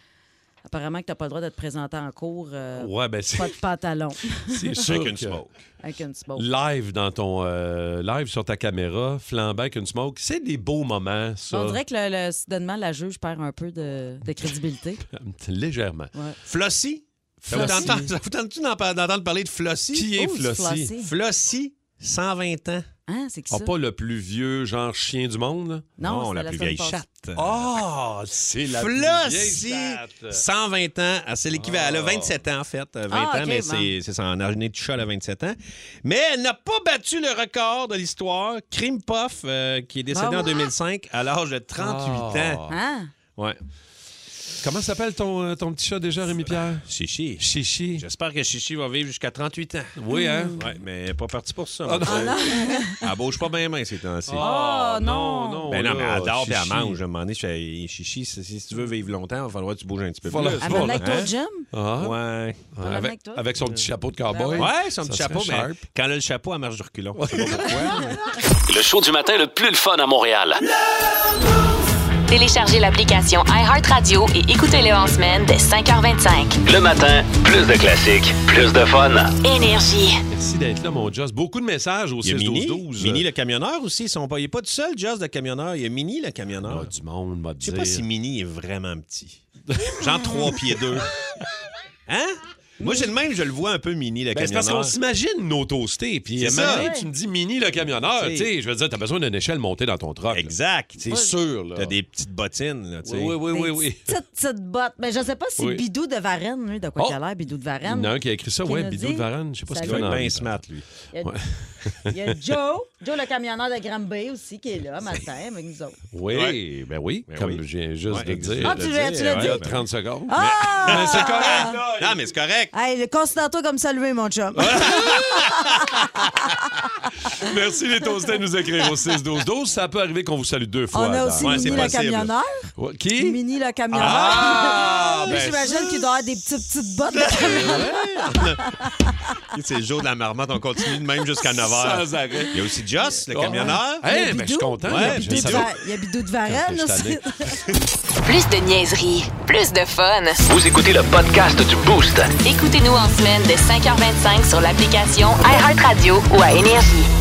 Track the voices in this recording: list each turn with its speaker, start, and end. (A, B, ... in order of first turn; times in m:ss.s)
0:00.6-0:04.7 A
0:02.8-0:03.6 B
0:04.5-0:05.4 B
0:04.8-0:05.5 C
0:05.8-0:06.5 A
0:06.4-0:11.8 B
0:11.5-0:15.0 A
0:15.1-0:16.1 B
0:16.4-0:20.1 C
0:17.4-0:18.1 B
0:17.5-0:18.0 A
0:19.9-0:20.9 B
0:20.2-0:21.1 A
0:21.0-0:22.9 C
0:23.1-0:23.7 A
0:23.5-0:25.9 B
0:26.0-0:27.0 A
0:26.0-0:27.7 C
0:27.4-0:30.4 B
0:28.7-0:42.6 C
0:31.5-0:32.3 B
0:33.1-0:33.9 A
0:40.1-0:40.6 A
0:41.8-0:42.8 B
0:42.7-0:43.1 A
0:44.6-0:46.9 B
0:46.5-0:47.5 C
0:47.4-0:48.0 B
0:48.0-0:49.9 C
0:50.0-0:50.7 B
0:50.1-0:50.6 A
0:50.6-0:52.4 C
0:51.8-0:52.7 B
0:52.1-0:53.0 A
0:53.0-0:54.4 C
0:54.3-0:57.0 B
0:54.4-0:55.7 A
0:55.7-1:01.3 C
1:00.2-1:02.2 B
1:00.6-1:01.7 A
1:02.0-1:02.6 C
1:02.7-1:05.8 B
1:02.8-1:03.4 A
1:04.3-1:04.7 A
1:04.6-1:08.2 C
1:07.2-1:07.8 B
1:08.7-1:10.6 D
1:12.3-1:16.6 E
1:16.6-1:19.4 D
1:19.4-1:20.2 E
1:20.3-1:23.2 B
1:22.2-1:26.9 C
1:26.6-1:28.0 B
1:27.6-1:31.1 C
1:29.7-1:30.8 B
1:32.1-1:35.0 C
1:32.8-1:33.1 A
1:34.3-1:42.0 B
1:36.4-1:36.9 C
1:36.6-1:37.1 A
1:38.2-1:38.5 C
1:40.3-1:41.1 C
1:41.8-1:43.4 C
1:43.0-1:44.0 B
1:43.5-1:48.1 A
1:45.6-1:45.8 B
1:47.8-1:50.6 B
1:48.6-1:50.1 A
1:49.8-1:50.9 C
1:51.2-1:52.2 B
1:52.0-1:56.0 A
1:56.1-2:02.2 B
1:56.3-1:56.6 C
1:57.3-1:59.8 C
1:58.6-1:59.6 A
2:00.3-2:01.8 A
2:00.4-2:02.7 C
2:02.7-2:06.1 A
2:04.6-2:06.1 C
2:04.6-2:05.2 B
2:07.4-2:12.0 B
2:10.9-2:12.5 A
2:11.4-2:12.3 C
2:12.8-2:13.4 B
2:13.2-2:17.9 A
2:13.9-2:16.1 B
2:14.0-2:14.9 C
2:17.1-2:18.7 C
2:17.4-2:17.9 B
2:19.5-2:24.0 C
2:21.6-2:22.7 B
2:23.3-2:25.7 B
2:23.5-2:27.6 A
2:24.9-2:25.7 C
2:26.5-2:27.2 B
2:28.2-2:30.4 E
2:30.5-2:32.3 D
2:32.4-2:37.1 E